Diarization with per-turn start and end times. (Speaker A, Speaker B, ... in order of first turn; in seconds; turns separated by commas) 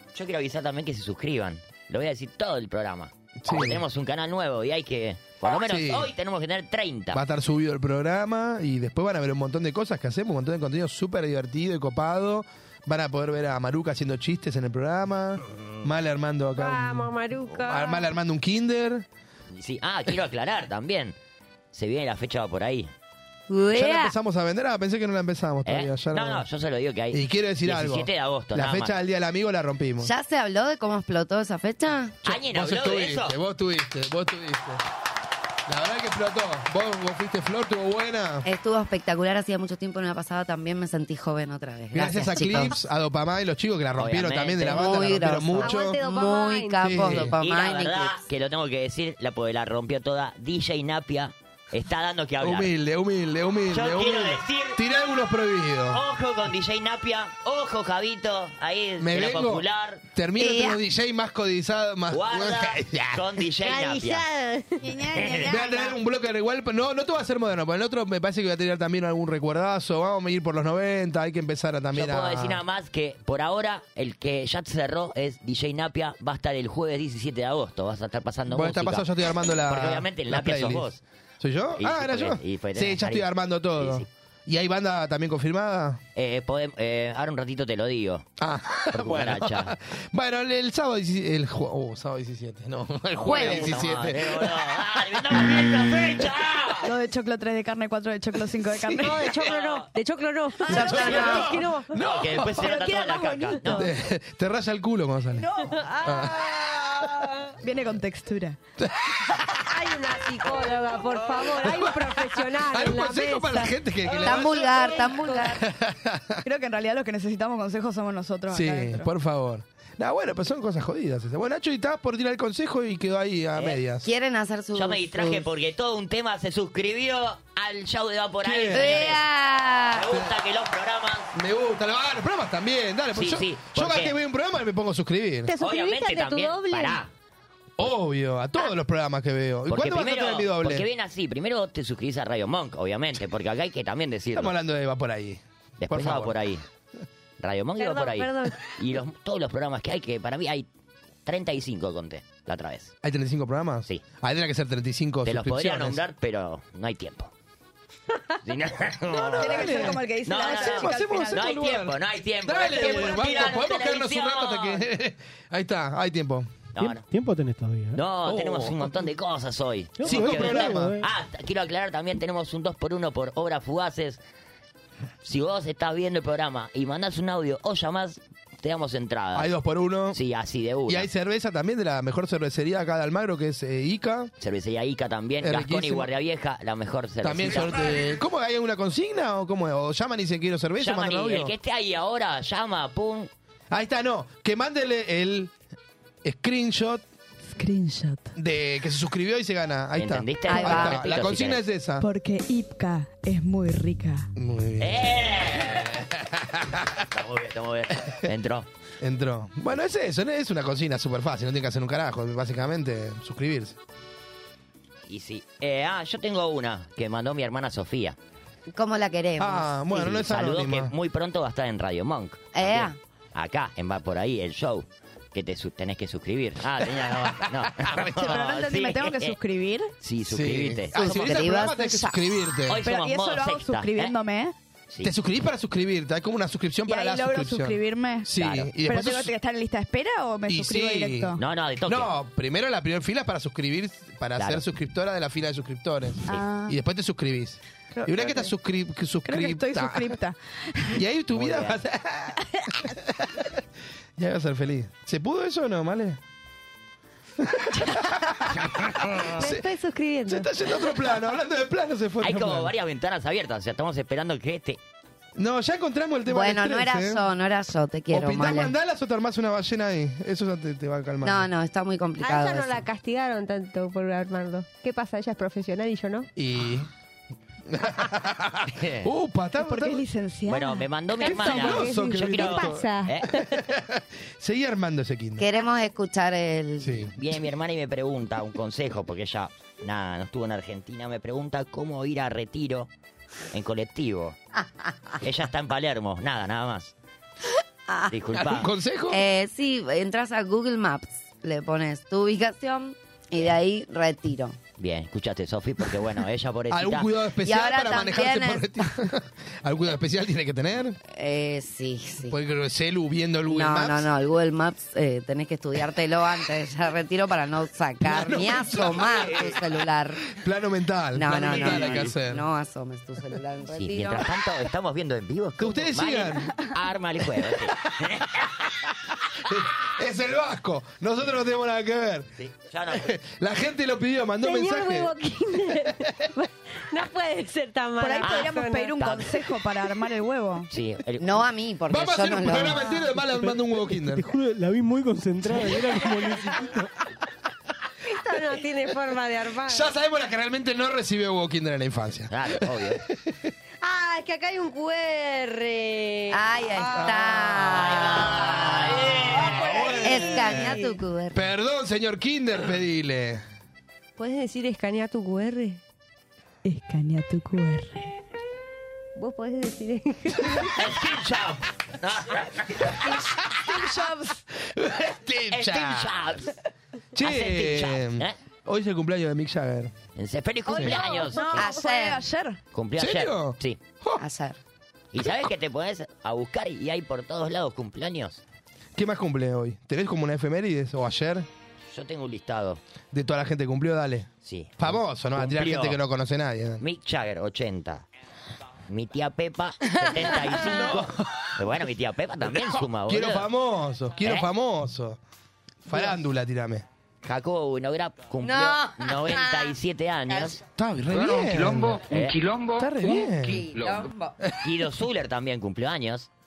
Speaker A: 0.1-7.2, Speaker B: 3.4-3.8, Speaker B: 5.5-6.1, Speaker B: 7.1-19.1, Speaker C: 16.5-18.1, Speaker A: 19.5-21.1, Speaker A: 21.7-22.9, Speaker D: 23.5-24.1, Speaker B: 23.7-26.4, Speaker A: 25.6-29.0, Speaker B: 27.1-30.1, Speaker D: 30.0-32.2, Speaker A: 32.2-33.4, Speaker B: 32.2-34.8, Speaker B: 35.7-38.5, Speaker D: 38.4-42.8, Speaker B: 41.9-46.0, Speaker A: 44.0-45.2, Speaker D: 44.6-48.2, Speaker C: 45.6-47.1, Speaker B: 46.8-47.3, Speaker A: 47.2-52.7, Speaker B: 52.4-56.0, Speaker A: 53.7-54.8, Speaker A: 55.9-60.0, Speaker B: 59.0-63.4, Speaker D: 60.4-60.8, Speaker A: 62.1-64.2, Speaker C: 63.6-64.8, Speaker E: 64.8-66.0, Speaker A: 65.1-65.5, Speaker B: 65.5-72.6, Speaker A: 71.9-79.1, Speaker B: 78.5-80.9, Speaker A: 79.7-81.0, Speaker B: 81.4-86.0, Speaker A: 81.8-84.1, Speaker A: 86.2-88.2, Speaker B: 88.4-94.7, Speaker A: 88.9-89.8, Speaker A: 93.1-96.9, Speaker D: 93.2-93.8, Speaker E: 96.8-99.3, Speaker B: 98.7-99.3, Speaker C: 98.9-101.9, Speaker A: 99.4-99.9, Speaker B: 100.7-102.8, Speaker D: 100.7-101.6, Speaker A: 102.0-103.9, Speaker E: 102.6-103.8, Speaker B: 103.7-105.5, Speaker E: 105.4-105.7, Speaker C: 105.7-107.5, Speaker B: 106.0-107.0, Speaker E: 107.6-108.6, Speaker B: 108.8-109.6, Speaker C: 109.6-115.6, Speaker B: 111.4-114.9, Speaker D: 114.2-115.6, Speaker B: 115.6-116.4, Speaker E: 116.4-119.1, Speaker B: 118.5-124.1, Speaker A: 123.5-123.8, Speaker D: 124.0-125.4, Speaker A: 124.7-129.2, Speaker B: 128.4-129.0, Speaker D: 128.7-130.1, Speaker A: 129.9-131.3, Speaker B: 131.3-135.5, Speaker A: 133.1-134.1, Speaker C: 135.5-137.0, Speaker A: 135.6-137.1, Speaker B: 137.8-140.8, Speaker A: 139.7-144.5, Speaker B: 144.3-146.3, Speaker A: 145.8-146.6, Speaker A: 147.4-150.7, Speaker C: 147.8-148.6, Speaker A: 151.2-152.9, Speaker B: 153.0-156.0, Speaker A: 155.2-157.3, Speaker A: 158.4-164.8, Speaker B: 159.1-166.5, Speaker E: 159.4-161.4, Speaker A: 166.7-167.1, Speaker F: 166.8-168.0, Speaker A: 167.9-174.2, Speaker B: 168.2-168.9, Speaker F: 170.0-171.1, Speaker B: 170.0-171.0, Speaker A: 175.2-179.5, Speaker B: 179.3-180.2, Speaker A: 180.1-181.1, Speaker B: 180.9-184.3, Speaker A: 184.4-187.9, Speaker B: 185.4-186.1, Speaker B: 187.2-191.5, Speaker A: 190.8-193.3, Speaker B: 193.7-195.5, Speaker B: 196.2-197.0, Speaker E: 197.5-198.3, Speaker B: 198.3-202.1, Speaker A: 199.9-201.6, Speaker D: 200.5-201.1, Speaker E: 202.0-204.3, Speaker B: 204.3-207.0, Speaker A: 204.8-206.1, Speaker A: 207.0-208.7, Speaker B: 209.0-213.8, Speaker A: 215.1-218.2, Speaker D: 218.7-220.2, Speaker B: 219.4-220.9, Speaker A: 220.0-229.3, Speaker D: 222.5-223.0, Speaker B: 227.6-228.4, Speaker E: 228.2-229.9, Speaker A: 230.0-231.5, Speaker B: 230.3-232.8, Speaker D: 230.9-232.2, Speaker A: 232.7-234.1, Speaker E: 232.8-234.5, Speaker A: 234.9-235.1, Speaker B: 235.0-239.3, Speaker E: 236.9-238.3, Speaker A: 238.3-238.7, Speaker E: 238.8-241.4, Speaker B: 240.5-241.3, Speaker A: 241.4-242.1, Speaker B: 241.9-250.1, Speaker A: 244.4-244.6, Speaker E: 246.3-246.8, Speaker E: 247.9-248.5, Speaker E: 249.2-251.0, Speaker B: 250.9-253.5, Speaker A: 251.3-251.8, Speaker B: 254.2-256.2, Speaker B: 257.4-259.7, Speaker C: 259.4-260.4, Speaker B: 260.2-262.7, Speaker A: 262.2-264.8, Speaker B: 265.4-267.2, Speaker D: 266.3-268.7, Speaker B: 268.1-271.5, Speaker D: 271.2-272.8, Speaker C: 272.2-276.3, Speaker B: 276.4-276.9, Speaker B: 277.7-280.0, Speaker A: 278.7-279.1, Speaker E: 279.6-280.8, Speaker A: 280.5-283.4, Speaker C: 281.2-283.1, Speaker B: 281.2-285.4, Speaker D: 285.4-287.1, Speaker B: 286.8-287.1, Speaker A: 287.2-292.9, Speaker A: 293.5-294.4, Speaker A: 295.2-296.9, Speaker A: 298.1-298.7, Speaker B: 298.4-299.2, Speaker D: 299.1-304.6, Speaker A: 304.8-307.1, Speaker B: 306.7-311.0, Speaker D: 307.4-309.0, Speaker D: 311.1-312.4, Speaker B: 312.3-314.1, Speaker D: 313.5-320.3, Speaker B: 318.0-319.6, Speaker B: 320.3-322.4, Speaker D: 321.1-324.4, Speaker A: 321.5-322.1, Speaker A: 323.7-328.4, Speaker B: 325.6-326.6, Speaker B: 327.9-328.5, Speaker B: 329.4-332.3, Speaker A: 332.4-333.1, Speaker B: 332.9-335.1, Speaker C: 334.4-338.9, Speaker E: 338.0-340.7, Speaker A: 338.2-339.5, Speaker A: 340.7-341.5, Speaker D: 341.2-343.0, Speaker B: 341.9-344.2, Speaker F: 343.3-346.9, Speaker C: 348.1-349.9, Speaker B: 349.7-353.5, Speaker A: 352.3-353.0, Speaker C: 353.8-357.1, Speaker D: 356.3-358.6, Speaker B: 356.9-360.7, Speaker A: 357.7-359.6, Speaker C: 359.4-360.9, Speaker D: 360.0-361.4, Speaker B: 361.3-363.4, Speaker C: 364.2-365.8, Speaker E: 366.6-368.2, Speaker C: 369.1-370.8, Speaker A: 370.7-373.1, Speaker E: 373.0-374.4, Speaker B: 374.5-376.2, Speaker A: 375.5-376.5, Speaker A: 377.1-378.4, Speaker B: 377.1-379.9, Speaker A: 380.1-381.7, Speaker E: 380.7-382.6, Speaker B: 380.7-381.0, Speaker D: 381.5-382.2, Speaker A: 382.7-383.8, Speaker B: 383.0-384.2, Speaker D: 384.2-384.6, Speaker A: 385.1-388.4, Speaker B: 388.9-391.5, Speaker A: 391.9-392.8, Speaker B: 393.1-396.8, Speaker A: 394.4-396.0, Speaker A: 396.8-398.0, Speaker A: 398.9-403.5, Speaker D: 399.9-400.4, Speaker B: 400.5-401.6, Speaker B: 402.5-405.2, Speaker A: 404.2-404.5, Speaker B: 405.8-406.9, Speaker D: 405.9-406.2, Speaker A: 407.2-410.6, Speaker D: 408.4-409.8, Speaker D: 410.3-410.6, Speaker B: 410.8-413.8, Speaker A: 412.0-412.5, Speaker D: 413.0-414.4, Speaker B: 414.4-414.7, Speaker A: 414.6-416.3